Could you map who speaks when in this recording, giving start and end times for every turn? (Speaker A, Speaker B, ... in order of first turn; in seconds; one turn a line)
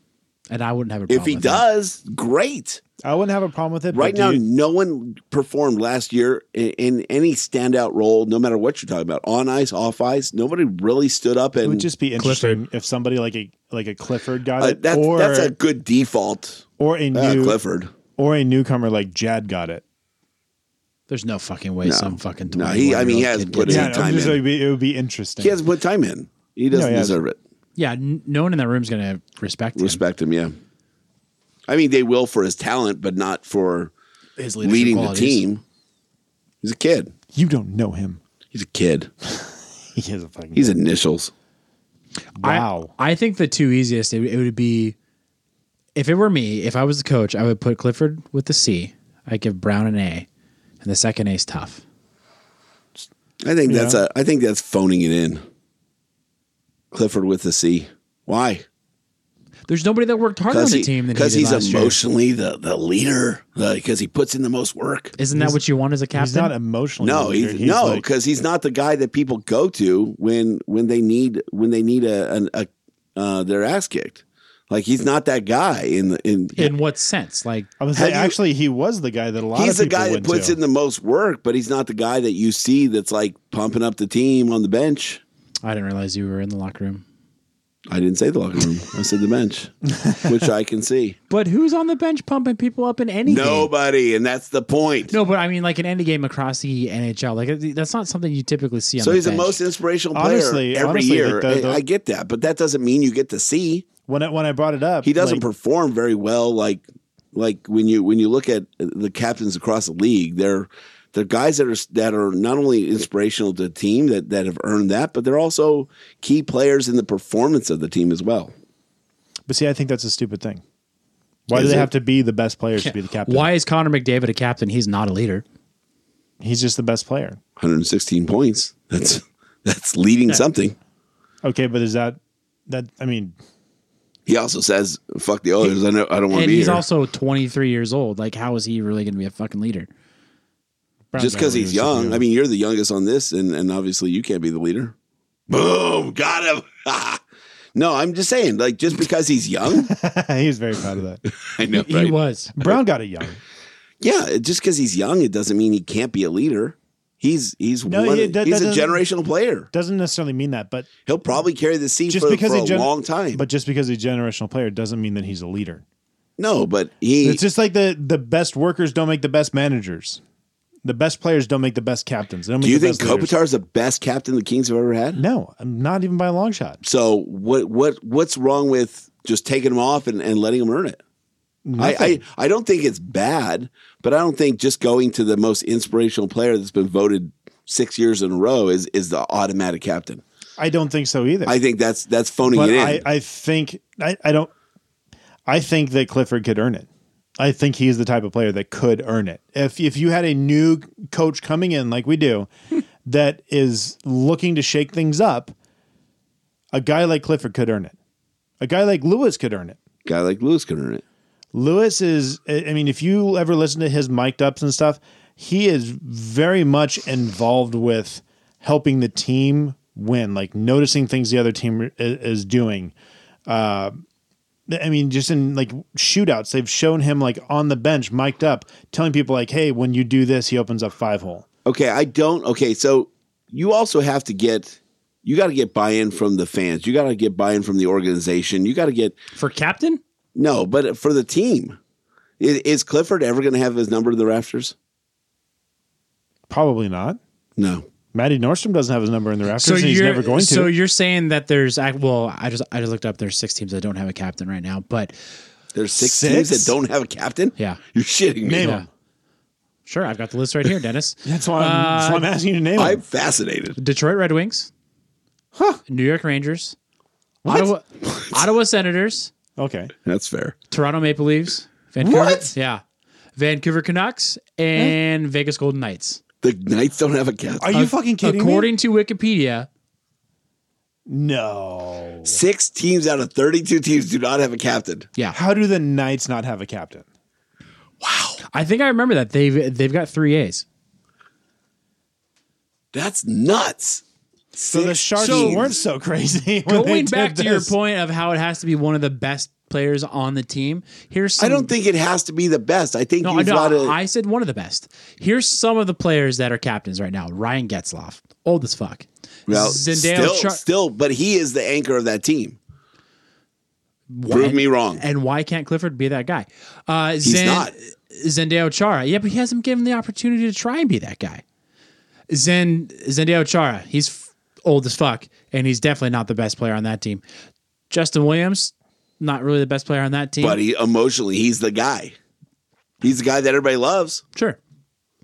Speaker A: 0.5-1.6
Speaker B: 1.1-2.8
Speaker C: 3.0-4.4
Speaker B: 3.9-11.9
Speaker C: 11.6-15.5
Speaker A: 12.2-12.6
Speaker B: 14.6-17.9
Speaker C: 16.8-17.6
Speaker C: 18.1-19.8
Speaker A: 21.1-24.1
Speaker B: 21.8-24.4
Speaker C: 23.6-25.6
Speaker B: 25.4-27.4
Speaker C: 26.7-27.2
Speaker A: 27.8-30.0
Speaker B: 29.8-30.6
Speaker B: 31.7-33.9
Speaker A: 34.4-35.4
Speaker B: 34.6-35.6
Speaker B: 36.6-37.1
Speaker C: 37.3-38.2
Speaker B: 38.5-39.1
Speaker C: 39.3-40.8
Speaker B: 40.5-41.3
Speaker C: 42.4-42.9
Speaker A: 42.4-44.9
Speaker A: 45.9-50.3
Speaker A: 50.8-51.8
Speaker B: 53.4-55.4
Speaker C: 53.6-54.0
Speaker B: 56.9-58.6
Speaker A: 59.7-62.0
Speaker B: 60.5-65.1
Speaker A: 65.2-66.5
Speaker C: 65.3-65.6
Speaker C: 66.1-68.0
Speaker B: 67.0-76.7
Speaker A: 76.5-77.7
Speaker C: 77.8-80.6
Speaker B: 78.0-78.4
Speaker B: 79.5-85.2
Speaker A: 85.6-87.0
Speaker B: 87.9-91.2
Speaker C: 89.9-90.5
Speaker A: 91.3-93.7
Speaker B: 93.2-95.1
Speaker A: 95.1-99.6
Speaker B: 99.0-103.8
Speaker C: 100.1-101.8
Speaker C: 104.1-105.4
Speaker B: 105.0-118.5
Speaker C: 119.5-120.6
Speaker C: 121.5-123.5
Speaker B: 121.5-121.9
Speaker A: 122.8-125.4
Speaker C: 126.4-127.4
Speaker B: 127.6-130.8
Speaker C: 131.4-133.3
Speaker B: 134.3-136.8
Speaker A: 136.3-139.9
Speaker C: 141.1-142.2
Speaker B: 141.2-144.9
Speaker B: 145.5-147.2
Speaker B: 147.7-149.9
Speaker C: 149.7-151.2
Speaker B: 151.4-152.8
Speaker A: 151.7-152.5
Speaker C: 152.6-153.4
Speaker B: 154.0-159.7
Speaker C: 157.9-159.0
Speaker C: 159.7-160.9
Speaker B: 161.1-163.4
Speaker C: 162.1-165.8
Speaker B: 166.4-167.4
Speaker C: 167.2-170.2
Speaker C: 170.8-173.3
Speaker B: 172.6-175.2
Speaker C: 175.2-176.8
Speaker B: 176.8-181.0
Speaker C: 181.6-182.2
Speaker B: 181.8-190.2
Speaker C: 190.6-191.5
Speaker B: 191.4-193.0
Speaker C: 192.5-194.5
Speaker C: 195.4-196.9
Speaker C: 197.4-202.5
Speaker C: 203.0-205.5
Speaker C: 206.7-207.9
Speaker C: 208.6-209.8
Speaker B: 210.1-211.0
Speaker C: 211.5-222.9
Speaker C: 223.5-224.0
Speaker C: 224.7-231.4
Speaker B: 231.7-239.2
Speaker A: 239.3-240.0
Speaker B: 240.3-241.8
Speaker B: 242.4-244.7
Speaker C: 246.5-247.2
Speaker B: 247.6-247.8
Speaker C: 248.1-250.7
Speaker A: 249.6-255.2
Speaker B: 255.7-258.7
Speaker C: 256.0-256.8
Speaker C: 258.4-258.9
Speaker A: 259.9-262.3
Speaker C: 261.2-263.0
Speaker B: 262.8-263.8
Speaker A: 263.8-264.7
Speaker C: 265.5-265.8
Speaker A: 265.9-266.8
Speaker C: 267.4-267.7
Speaker A: 267.5-269.3
Speaker C: 269.6-269.9
Speaker B: 270.1-270.6
Speaker A: 270.7-272.8
Speaker C: 272.0-272.5
Speaker A: 273.4-276.2
Speaker B: 276.4-277.7
Speaker C: 277.6-278.7
Speaker A: 277.7-279.7
Speaker C: 281.1-282.4
Speaker B: 282.2-285.1
Speaker C: 285.3-287.1
Speaker B: 288.0-288.4
Speaker A: 288.5-290.6
Speaker B: 292.9-294.0
Speaker B: 294.5-295.7
Speaker C: 294.7-297.7
Speaker A: 295.2-295.6
Speaker A: 296.6-301.7
Speaker B: 301.4-303.9
Speaker A: 303.2-310.6
Speaker B: 309.5-312.6
Speaker A: 314.1-321.4
Speaker B: 314.3-315.0
Speaker B: 317.2-317.7
Speaker A: 322.3-327.2
Speaker A: 327.9-330.6
Speaker B: 330.4-332.1
Speaker B: 333.0-334.2